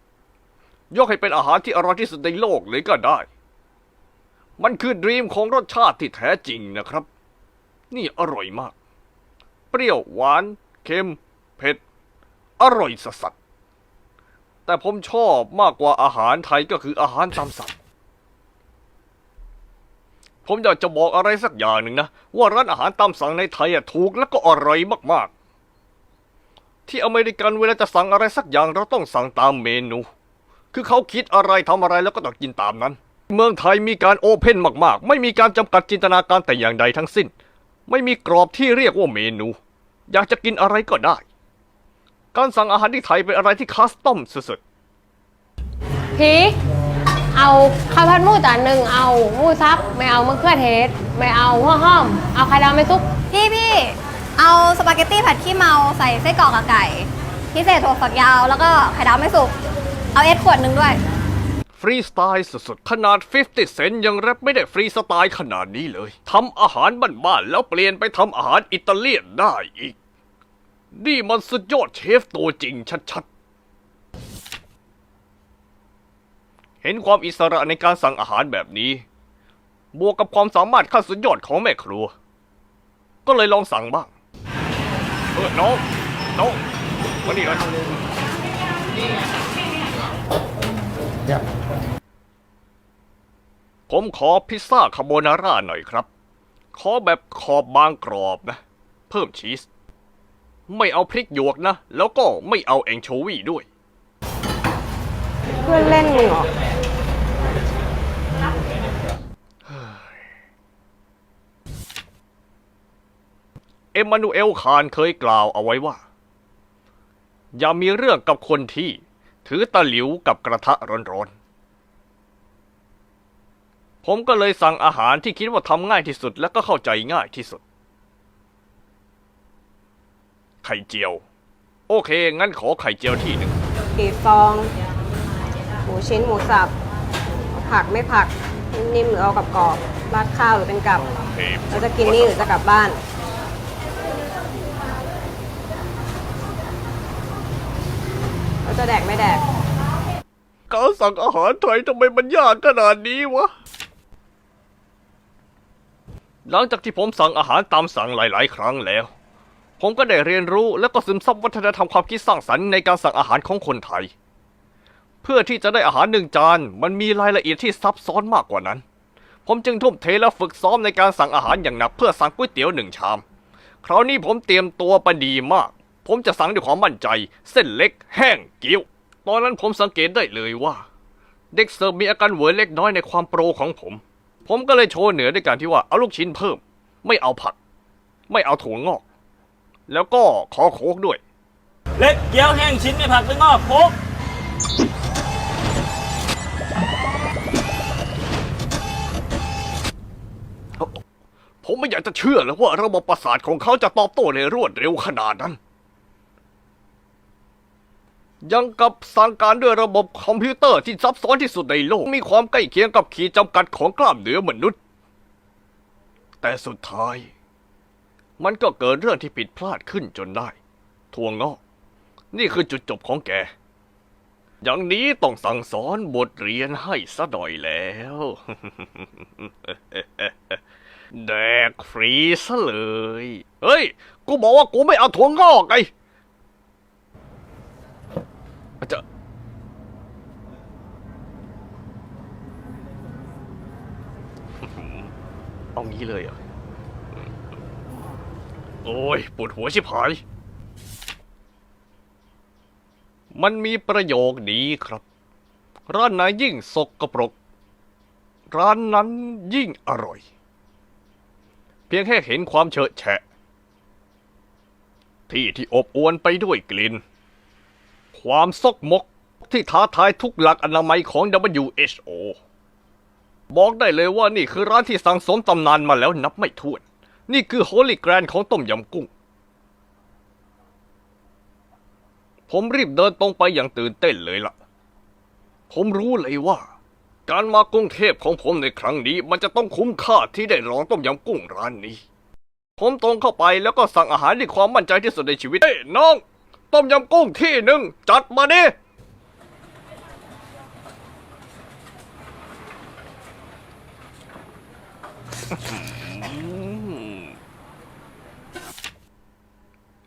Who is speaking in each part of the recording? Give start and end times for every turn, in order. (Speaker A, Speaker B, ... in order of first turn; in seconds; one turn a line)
Speaker A: 0.9-3.3
Speaker A: 4.6-7.1
Speaker A: 7.9-8.7
Speaker A: 9.7-11.8
Speaker A: 12.6-13.3
Speaker A: 14.7-17.8
Speaker A: 20.4-25.3
Speaker A: 26.9-30.1
Speaker A: 30.7-37.3
Speaker A: 37.9-39.6
Speaker A: 40.1-41.2
Speaker A: 42.3-44.6
Speaker B: 46.2-46.6
Speaker B: 47.4-53.0
Speaker C: 53.3-59.5
Speaker C: 60.1-61.0
Speaker A: 61.7-70.0
Speaker A: 71.0-73.3
Speaker A: 76.8-79.0
Speaker A: 79.9-82.1
Speaker A: 83.2-84.1
Speaker A: 85.4-85.8
Speaker A: 87.2-87.7
Speaker A: 93.9-96.1
Speaker A: 96.7-99.7
Speaker A: 100.7-103.7
Speaker D: 105.7-106.5
Speaker A: 113.9-116.0
Speaker A: 117.6-121.3
Speaker A: 124.0-127.6
Speaker A: 130.6-131.2
Speaker A: 131.9-133.6
Speaker D: 134.0-134.7
Speaker D: 135.9-136.7
Speaker D: 137.5-141.0
Speaker A: 141.1-142.5
Speaker D: 141.7-143.0
Speaker D: 148.6-149.4
Speaker A: 150.7-153.5
Speaker A: 156.5-159.1
Speaker A: 159.8-164.1
Speaker A: 165.2-168.8
Speaker A: 169.4-173.2
Speaker A: 173.8-180.8
Speaker A: 181.5-187.6
Speaker A: 188.3-189.0
Speaker A: 189.9-191.2
Speaker E: 192.0-193.9
Speaker A: 201.6-205.6
Speaker A: 208.4-214.8
Speaker A: 216.4-217.3
Speaker A: 218.4-220.6
Speaker A: 221.1-221.6
Speaker A: 222.3-223.5
Speaker A: 224.6-230.6
Speaker A: 231.1-235.9
Speaker A: 244.7-245.1
Speaker A: 245.8-246.4
Speaker A: 248.8-250.2
Speaker A: 253.3-255.0
Speaker A: 255.9-257.4
Speaker A: 258.5-260.2
Speaker A: 261.9-263.2
Speaker A: 265.3-267.0
Speaker A: 268.1-272.4
Speaker A: 273.5-279.1
Speaker A: 282.5-284.6
Speaker A: 285.7-286.7
Speaker A: 287.3-292.0
Speaker A: 292.8-298.8
Speaker A: 305.7-307.2